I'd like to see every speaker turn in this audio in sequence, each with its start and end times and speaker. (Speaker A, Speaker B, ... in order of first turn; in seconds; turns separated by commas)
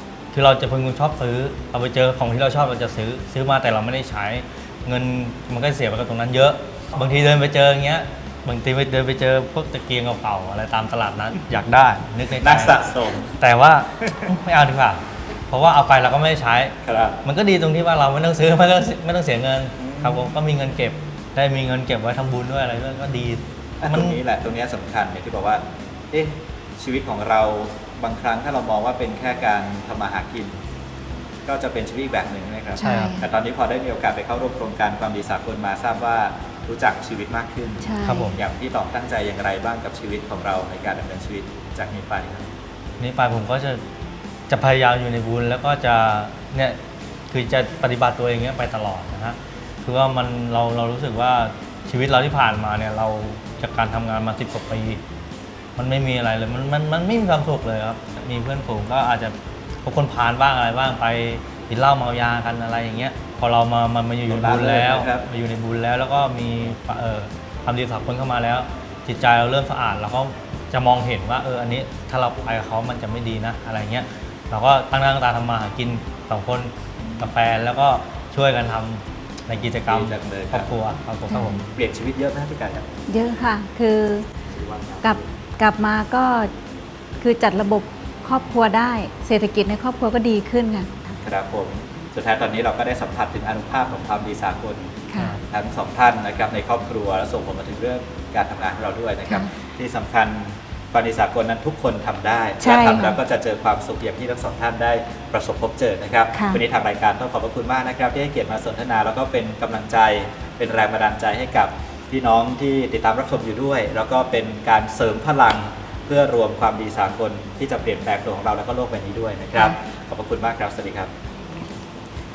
Speaker A: 0.3-12.8, Speaker B: 12.4-13.3, Speaker A: 13.3-24.2, Speaker B: 14.0-14.3, Speaker B: 16.8-17.2, Speaker B: 19.8-20.3, Speaker B: 23.8-30.6, Speaker B: 31.5-42.5, Speaker C: 32.8-33.3, Speaker A: 32.8-33.1, Speaker C: 37.8-38.4, Speaker A: 38.1-38.4, Speaker A: 43.0-43.8, Speaker A: 44.5-46.8, Speaker A: 47.3-55.0, Speaker A: 55.8-81.6, Speaker B: 64.3-65.3, Speaker B: 79.9-80.7, Speaker C: 81.3-81.6, Speaker B: 81.7-82.9, Speaker C: 83.1-84.3, Speaker B: 84.5-85.3, Speaker C: 85.0-86.5, Speaker C: 87.2-91.2, Speaker B: 91.2-121.1, Speaker C: 95.1-95.4, Speaker C: 102.6-103.2, Speaker C: 106.3-106.6